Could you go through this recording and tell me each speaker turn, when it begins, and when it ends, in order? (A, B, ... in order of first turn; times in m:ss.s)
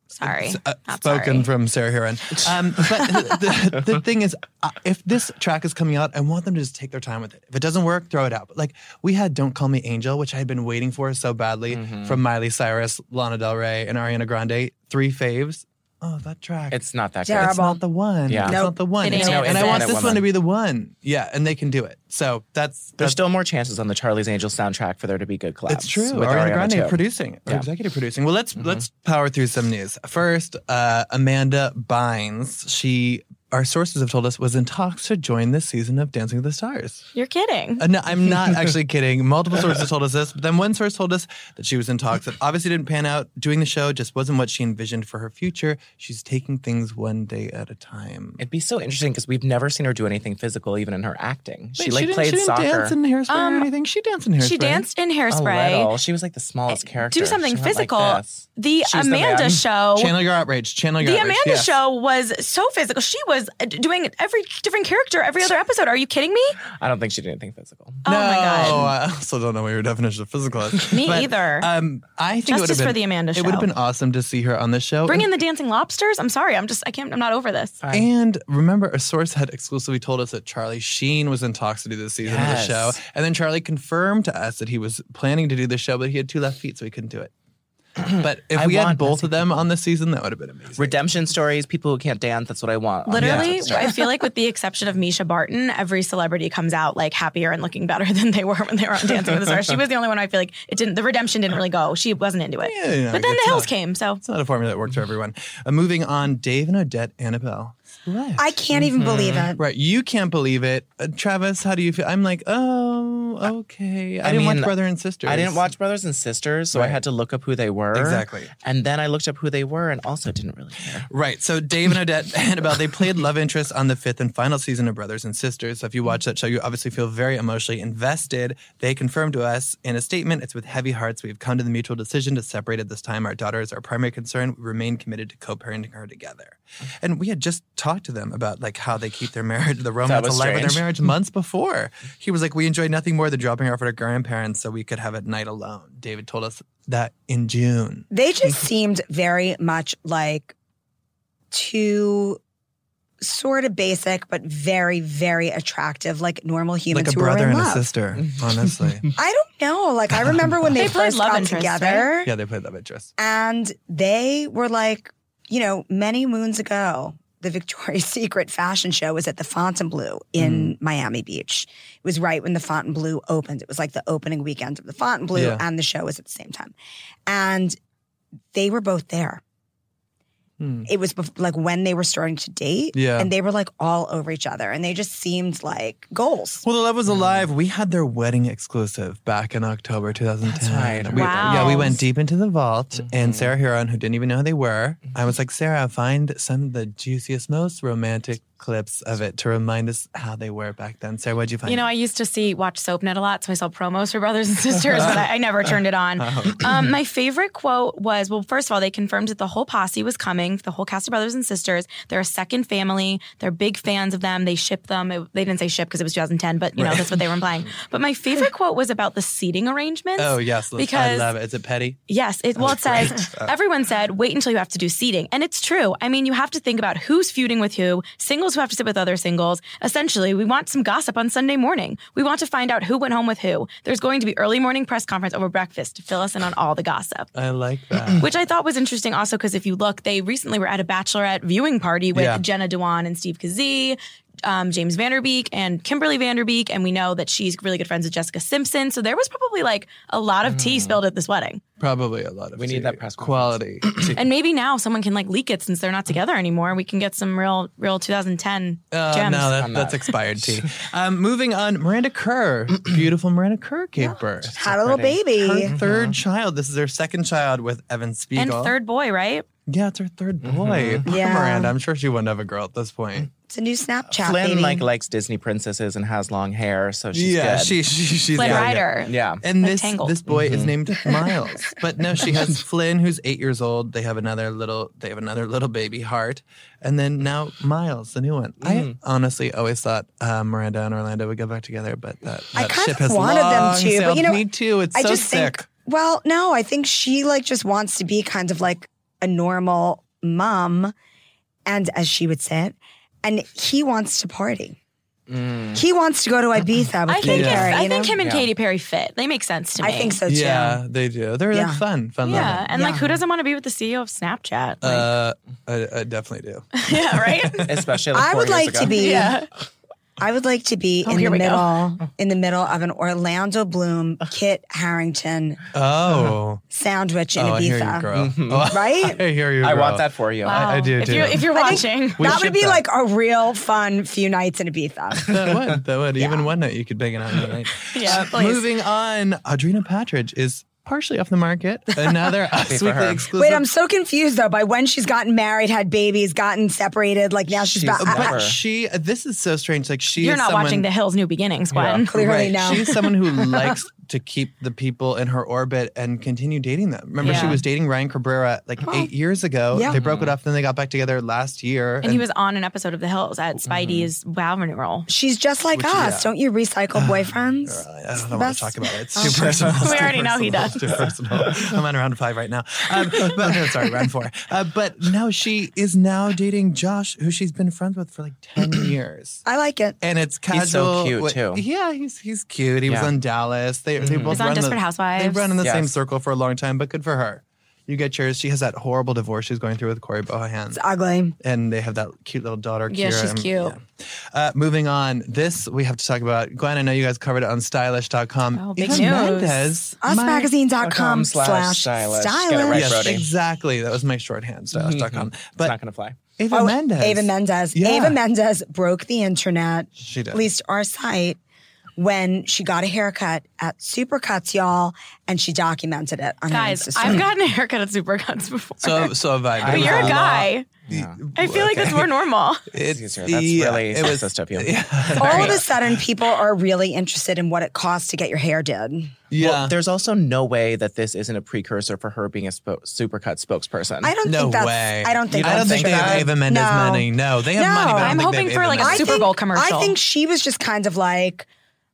0:00.2-0:01.5 A
0:00.2-0:16.8 B
0:02.4-0:03.1 C
0:11.7-0:12.2 C
0:16.7-0:17.6 C
0:17.2-0:17.8 D
0:17.3-0:23.2 B
0:18.3-0:20.3 C
0:18.5-0:18.8 D
0:19.0-0:19.9 A
0:23.0-0:27.7 C
0:25.7-0:37.1 B
0:37.2-0:37.8 A
0:37.8-0:48.4 B
0:48.4-0:53.0 C
0:51.8-0:54.9 B
0:53.3-0:53.7 A
0:54.4-0:55.9 A
0:55.3-0:59.6 C
0:56.7-1:00.1 A
1:00.0-1:01.8 B
1:01.0-1:06.6 A
1:06.8-1:08.0 C
1:08.0-1:08.9 A
1:08.0-1:15.3 B
1:10.9-1:11.7 A
1:12.5-1:13.7 A
1:15.1-1:17.8 A
1:17.8-1:18.1 C
1:17.9-1:27.3 B
1:22.2-1:23.0 C
1:28.0-1:29.4 C
1:28.2-1:31.1 B
1:30.8-1:33.9 C
1:33.1-1:44.2 A
1:33.2-1:33.8 B
1:42.6-1:48.9 B
1:48.4-1:49.6 D
1:48.9-1:49.5 C
1:49.6-1:55.7 B
1:54.2-2:01.1 C
1:56.7-1:57.0 B
1:57.9-1:58.5 B
2:01.1-2:28.1 B
2:20.0-2:20.8 C
2:28.1-2:30.5 D
2:31.5-2:32.4 D
2:33.2-2:37.8 D
2:36.9-2:39.1 B
2:39.2-2:42.3 D
2:40.2-2:40.9 B
2:40.8-2:42.1 A
2:42.2-2:43.1 B
2:43.2-2:56.8 D
2:50.4-2:50.7 B
2:55.3-2:55.6 B
2:57.3-2:57.8 D
2:58.5-2:59.4 D
3:00.6-3:00.9 B
3:00.9-3:06.6 D
3:02.9-3:03.3 B
3:06.6-3:21.9 B
3:07.1-3:07.5 C
3:10.4-3:11.8 C
3:11.1-3:12.0 A
3:13.0-3:13.5 C
3:21.7-3:41.3 A
3:26.2-3:26.9 B
3:36.8-3:37.7 B
3:40.2-3:42.0 B
3:42.1-3:57.3 A
3:42.6-3:43.6 B
3:57.4-3:58.3 B
3:58.2-4:11.6 A
4:02.1-4:02.4 B
4:10.4-4:11.0 C
4:11.8-4:14.2 B
4:12.6-4:14.2 C
4:14.2-4:19.6 A
4:18.9-4:24.8 B
4:19.5-4:20.6 C
4:24.6-4:25.7 D
4:24.6-4:26.2 C
4:25.3-4:28.8 B
4:28.4-4:29.4 A
4:29.7-4:33.3 B
4:30.4-4:31.1 C
4:31.1-4:31.7 D
4:33.5-4:34.9 D
4:34.1-4:37.8 C
4:37.1-4:55.7 B
4:38.4-4:40.2 A
4:38.4-4:39.4 C
4:40.3-4:40.7 C
4:48.6-4:49.0 C
4:52.6-5:00.9 D
5:01.7-5:04.8 D
5:05.3-5:05.8 C
5:05.8-5:08.2 D
5:07.1-5:10.2 A
5:07.2-5:07.8 B
5:08.2-5:08.5 C
5:09.8-5:10.8 D
5:10.3-5:12.7 B
5:11.5-5:11.8 D
5:12.2-5:15.1 A
5:12.4-5:13.2 D
5:14.8-5:17.9 B
5:16.8-5:17.7 A
5:17.7-5:19.3 C
5:18.1-5:19.4 D
5:18.9-5:19.5 A
5:20.2-5:25.6 D
5:21.0-5:21.7 A
5:25.7-5:26.6 B
5:26.7-5:28.1 D
5:27.4-5:32.8 B
5:28.1-5:28.7 C
5:28.7-5:29.2 D
5:29.6-5:30.6 C
5:30.4-5:32.3 A
5:31.5-5:35.3 D
5:35.3-5:43.7 B
5:35.3-5:36.4 C
5:37.9-5:38.7 A
5:42.6-5:43.3 C
5:43.4-5:48.4 D
5:47.5-5:48.6 C
5:48.0-5:50.9 B
5:50.2-5:52.1 A
5:51.7-5:52.0 C
5:52.1-5:53.1 D
5:52.2-6:02.2 B
5:57.2-5:57.6 C
5:57.2-5:57.6 A
5:59.9-6:00.4 C
6:02.0-6:05.1 A
6:05.1-6:09.9 D
6:05.7-6:06.3 B
6:07.0-6:19.4 B
6:09.8-6:10.8 A
6:19.4-6:20.0 D
6:20.0-6:30.8 B
6:20.5-6:21.6 C
6:24.0-6:24.4 C
6:24.3-6:25.5 A
6:25.6-6:25.9 C
6:30.7-6:31.4 D
6:31.4-6:40.5 B
6:32.9-6:33.8 A
6:38.6-6:39.7 A
6:40.0-6:43.2 D
6:40.8-6:43.3 C
6:42.7-6:45.8 B
6:44.7-6:46.2 C
6:46.4-6:48.2 B
6:46.5-6:51.4 D
6:50.0-6:50.5 B
6:52.0-6:57.3 D
6:56.5-7:00.7 A
6:58.8-7:02.1 B
6:59.6-7:00.2 C
7:00.9-7:01.2 C
7:01.4-7:02.6 A
7:02.7-7:06.0 B
7:02.9-7:05.6 C
7:05.2-7:09.2 D
7:09.3-7:09.8 B
7:09.4-7:14.1 C
7:14.0-7:18.2 D
7:14.2-7:19.3 B
7:15.3-7:16.3 C
7:18.0-7:20.0 A
7:18.8-7:21.5 D